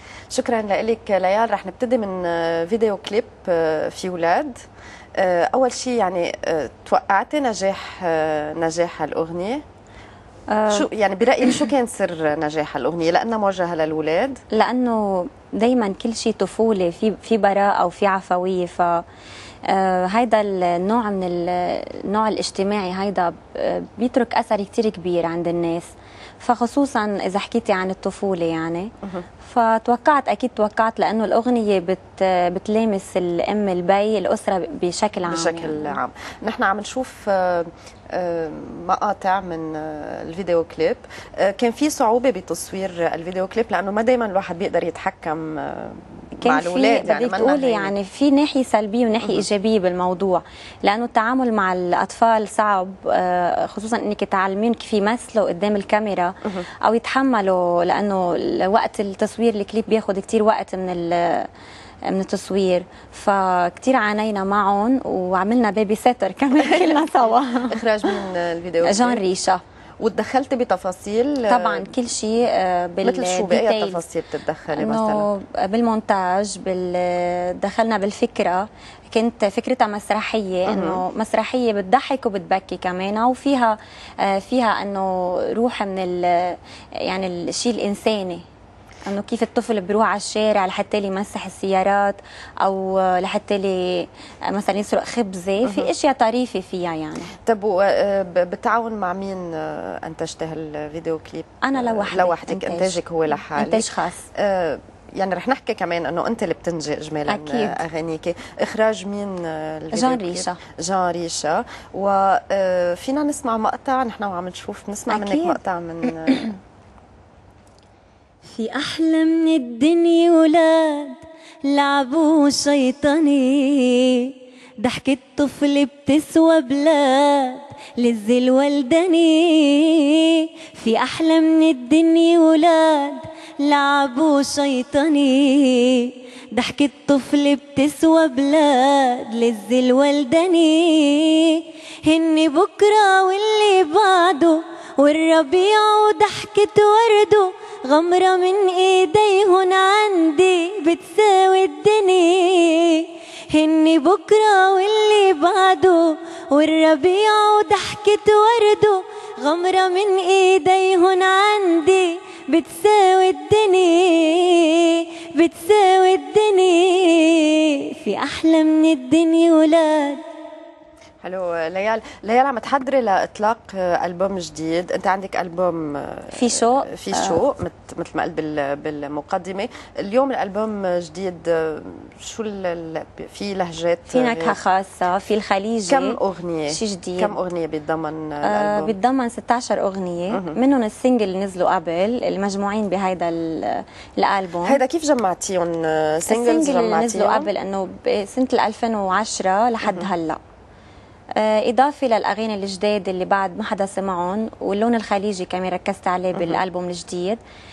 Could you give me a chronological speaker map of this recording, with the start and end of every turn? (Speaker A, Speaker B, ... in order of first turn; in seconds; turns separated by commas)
Speaker A: 0.3-4.5, Speaker A: 5.2-9.6, Speaker B: 10.5-10.9, Speaker A: 10.7-14.4, Speaker B: 14.5-19.0, Speaker B: 19.7-25.9, Speaker B: 26.4-28.9, Speaker B: 29.4-36.0, Speaker A: 35.2-47.9, Speaker B: 46.4-61.5, Speaker B: 62.0-67.8, Speaker A: 66.6-69.2, Speaker B: 68.8-69.6, Speaker A: 70.0-71.9, Speaker B: 71.5-74.0, Speaker A: 73.0-75.3, Speaker B: 74.7-88.4, Speaker A: 80.7-81.0, Speaker B: 89.0-97.3, Speaker A: 95.6-95.9, Speaker A: 97.4-116.5, Speaker B: 101.6-103.0, Speaker B: 103.5-104.3, Speaker B: 107.3-107.8, Speaker B: 109.9-110.6, Speaker B: 115.1-115.6, Speaker C: 118.5-170.2, Speaker A: 171.2-184.6, Speaker B: 176.3-177.4, Speaker B: 184.1-186.2, Speaker A: 185.9-188.9, Speaker B: 186.7-187.3, Speaker B: 188.4-194.8, Speaker A: 190.3-190.6, Speaker A: 194.6-197.5, Speaker B: 196.3-200.4, Speaker A: 199.8-200.1, Speaker B: 201.4-207.4, Speaker A: 206.3-206.6